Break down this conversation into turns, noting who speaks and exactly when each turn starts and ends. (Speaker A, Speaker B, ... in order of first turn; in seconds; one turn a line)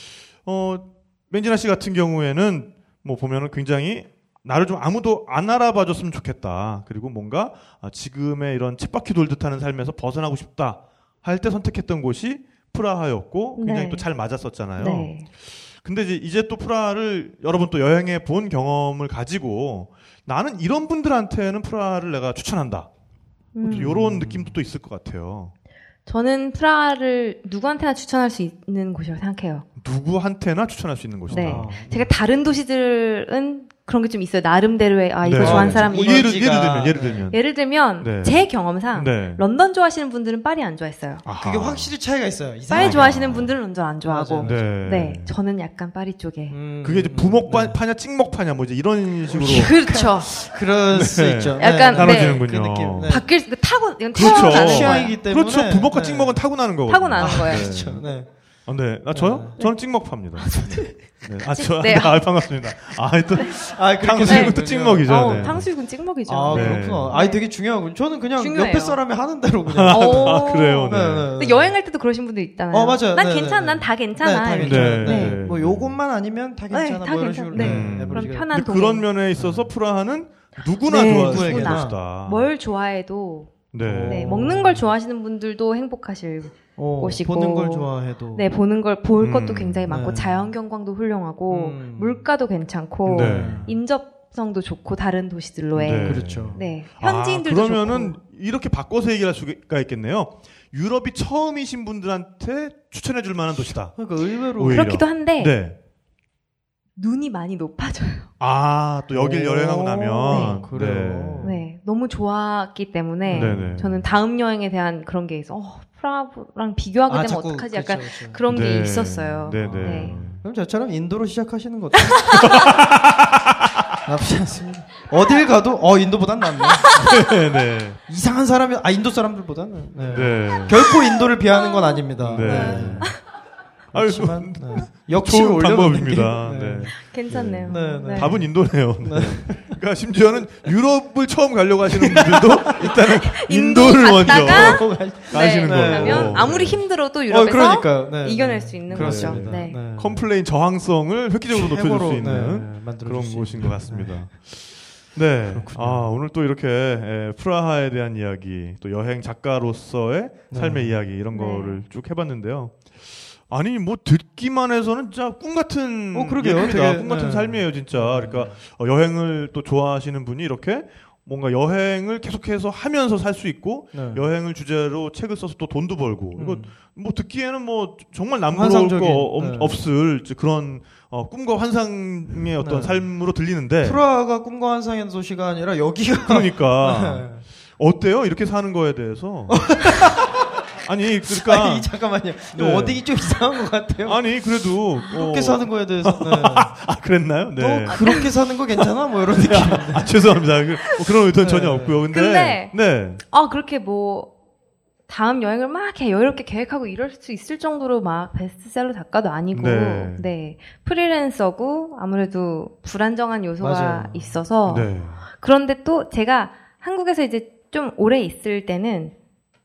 Speaker A: 0.4-22.9
Speaker B: 13.6-14.1
Speaker B: 14.8-15.2
Speaker B: 23.5-23.9
Speaker C: 23.6-24.6
Speaker A: 23.6-25.5
Speaker B: 26.1-29.6
Speaker A: 29.8-31.7
Speaker C: 31.3-32.1
Speaker B: 31.3-36.4
Speaker A: 35.2-37.4
Speaker C: 35.4-37.3
Speaker B: 37.3-41.2
Speaker A: 38.0-39.4
Speaker A: 41.2-41.9
Speaker C: 41.4-44.7
Speaker B: 42.7-46.6
Speaker A: 42.7-43.5
Speaker A: 44.4-45.3
Speaker C: 46.5-47.8
Speaker A: 46.8-49.8
Speaker C: 49.3-53.3
Speaker B: 49.4-50.3
Speaker A: 50.9-53.2
Speaker B: 51.6-52.5
Speaker B: 53.0-55.1
Speaker A: 54.1-58.1
Speaker C: 54.1-56.4
Speaker B: 56.9-57.7
Speaker C: 57.2-58.3
Speaker A: 58.6-65.7
Speaker C: 59.1-59.5
Speaker B: 60.4-60.9
Speaker B: 61.5-62.2
Speaker C: 63.5-65.6
Speaker B: 64.2-67.4
Speaker C: 66.3-71.7
Speaker A: 66.5-67.2
Speaker B: 68.4-69.0
Speaker A: 69.7-71.3
Speaker B: 69.9-75.4
Speaker C: 72.7-78.5
Speaker A: 74.6-76.0
Speaker B: 76.7-79.1
Speaker A: 77.5-82.5
Speaker C: 79.3-79.7
Speaker B: 80.8-98.2
Speaker C: 80.9-82.0
Speaker A: 83.7-84.5
Speaker C: 83.8-84.8
Speaker C: 86.8-88.5
Speaker A: 89.2-89.9
Speaker C: 89.9-90.5
Speaker C: 91.5-92.2
Speaker C: 93.0-93.8
Speaker A: 93.1-93.7
Speaker A: 95.7-104.0
Speaker C: 96.0-96.6
Speaker C: 104.0-104.9
Speaker A: 104.6-105.8
Speaker B: 104.6-105.5
Speaker B: 107.0-108.3
Speaker A: 108.4-111.5
Speaker C: 109.1-111.6
Speaker B: 110.3-110.6
Speaker B: 111.4-120.2
Speaker C: 113.2-113.8
Speaker A: 113.3-114.0
Speaker C: 117.1-118.4
Speaker A: 118.5-120.4
Speaker C: 119.6-122.5
Speaker B: 122.1-122.7
Speaker A: 122.3-124.0
Speaker C: 124.0-127.0
Speaker A: 126.9-128.0
Speaker C: 128.1-133.2
Speaker A: 130.1-130.8
Speaker B: 131.5-133.2
Speaker A: 132.2-133.1
Speaker C: 133.9-136.9
Speaker A: 133.9-146.8
Speaker B: 136.9-138.3
Speaker C: 137.7-139.7
Speaker C: 141.9-142.9
Speaker B: 142.8-149.8
Speaker C: 144.2-150.3
Speaker A: 148.9-162.9
Speaker C: 151.5-154.3
Speaker C: 155.5-156.1
Speaker C: 160.5-161.0
Speaker B: 161.3-161.8
Speaker A: 163.5-184.0
Speaker C: 166.1-168.6
Speaker C: 173.9-174.2
Speaker C: 176.3-176.7
Speaker C: 178.5-179.8
Speaker C: 182.6-183.1
Speaker C: 183.8-187.4
Speaker A: 186.2-190.2
Speaker C: 189.5-190.5
Speaker A: 190.8-191.9
Speaker C: 191.2-194.4
Speaker A: 192.5-193.0
Speaker A: 194.0-198.2
Speaker C: 195.0-196.8
Speaker C: 197.6-200.1
Speaker B: 197.9-198.2
Speaker A: 198.8-203.2
Speaker C: 201.3-202.0
Speaker B: 202.1-204.3
Speaker B: 205.1-219.1
Speaker A: 209.5-210.3
Speaker C: 213.6-214.4
Speaker A: 214.7-215.2